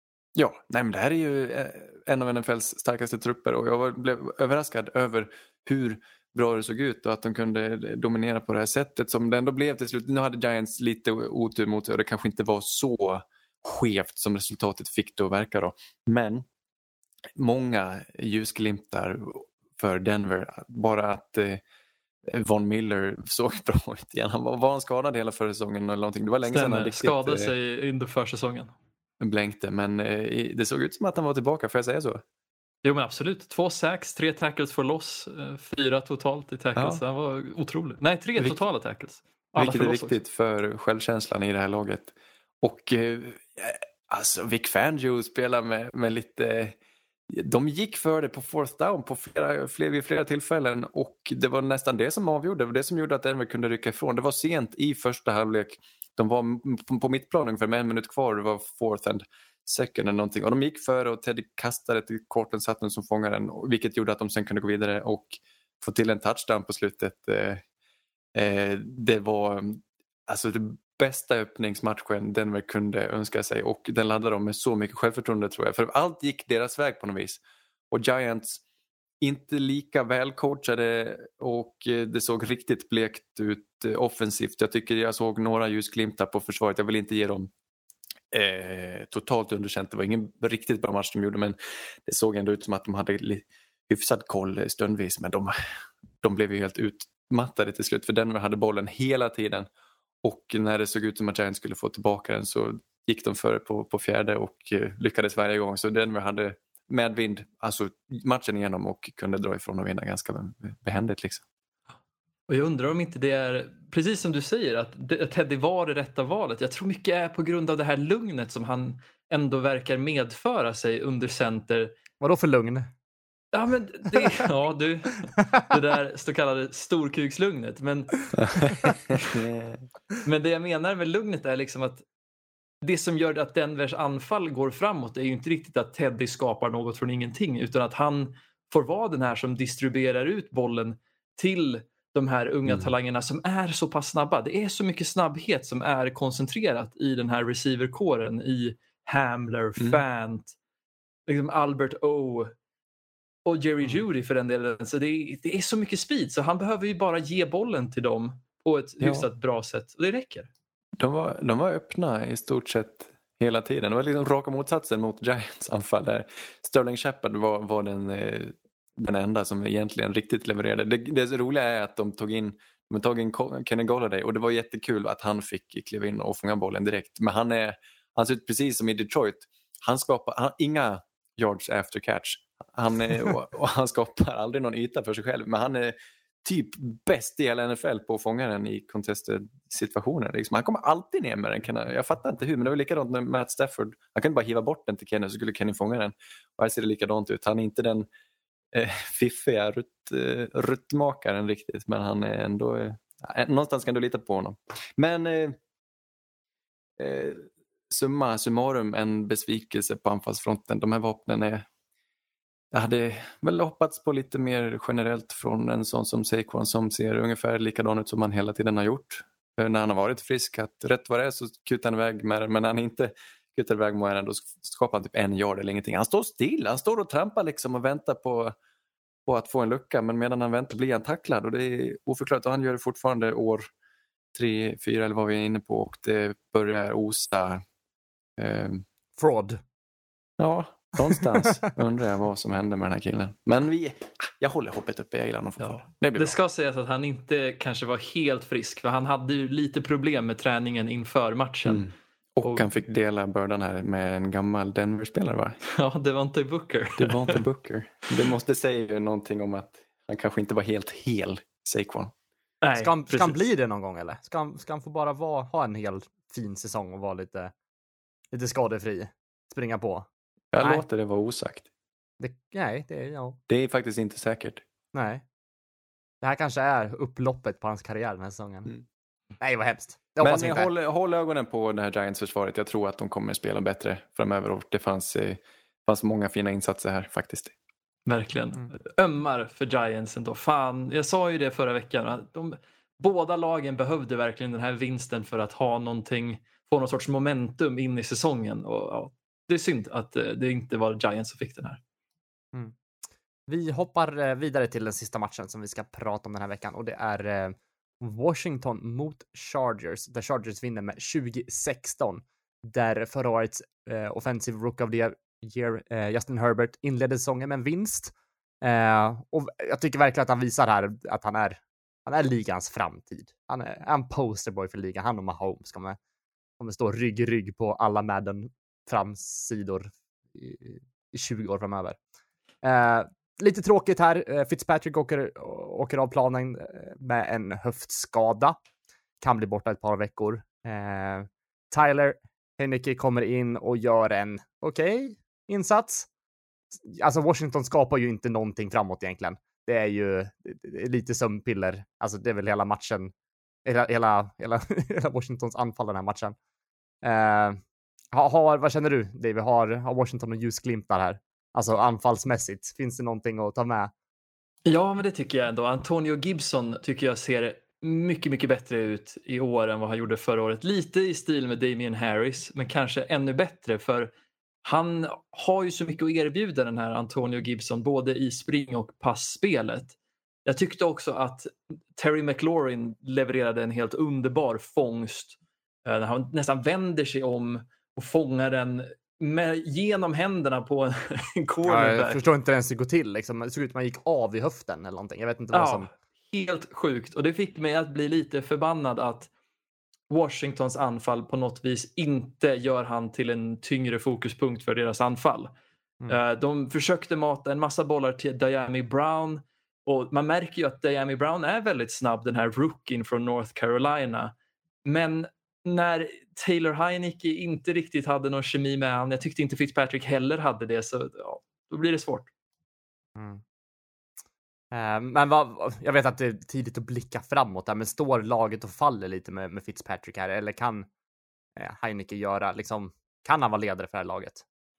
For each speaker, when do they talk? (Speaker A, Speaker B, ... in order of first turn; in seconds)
Speaker A: 0.3-16.4, 17.4-21.6, 22.3-27.5, 29.2-32.2, 36.8-37.0, 39.6-46.8, 47.3-67.6, 68.3-78.6, 79.2-87.5, 88.3-95.5, 96.2-99.7, 100.2-111.4, 128.4-129.8, 142.7-142.9, 149.8-150.0, 159.0-159.3, 161.0-198.1, 198.7-205.6, 207.0-211.7, 212.7-228.5, 229.2-233.7, 234.3-237.6, 238.4-238.8, 240.4-246.4, 251.6-255.6, 257.0-262.1, 270.5-271.6, 273.5-274.6, 280.2-287.5
Speaker B: 26.5-28.7, 32.8-40.1, 112.5-121.9, 123.5-128.4, 130.2-132.0, 132.8-150.5, 151.3-152.5, 153.4-160.5, 245.6-251.8, 255.7-257.4, 262.6-263.4, 288.1-301.8, 364.6-374.1, 374.6-392.2, 395.5-399.3, 400.1-405.5, 406.1-414.3, 414.8-422.3
Speaker C: 122.2-122.9, 239.2-239.6, 241.1-241.6, 262.8-267.5, 268.3-270.1, 270.6-270.8, 272.2-273.4, 274.9-275.2, 276.2-278.7, 279.4-280.7, 303.5-326.0, 326.6-332.0, 332.6-338.6, 339.2-346.1, 346.7-353.1, 353.6-356.4, 357.0-357.6, 358.1-363.9, 391.6-395.9, 423.2-423.4, 424.7-430.9, 431.6-434.4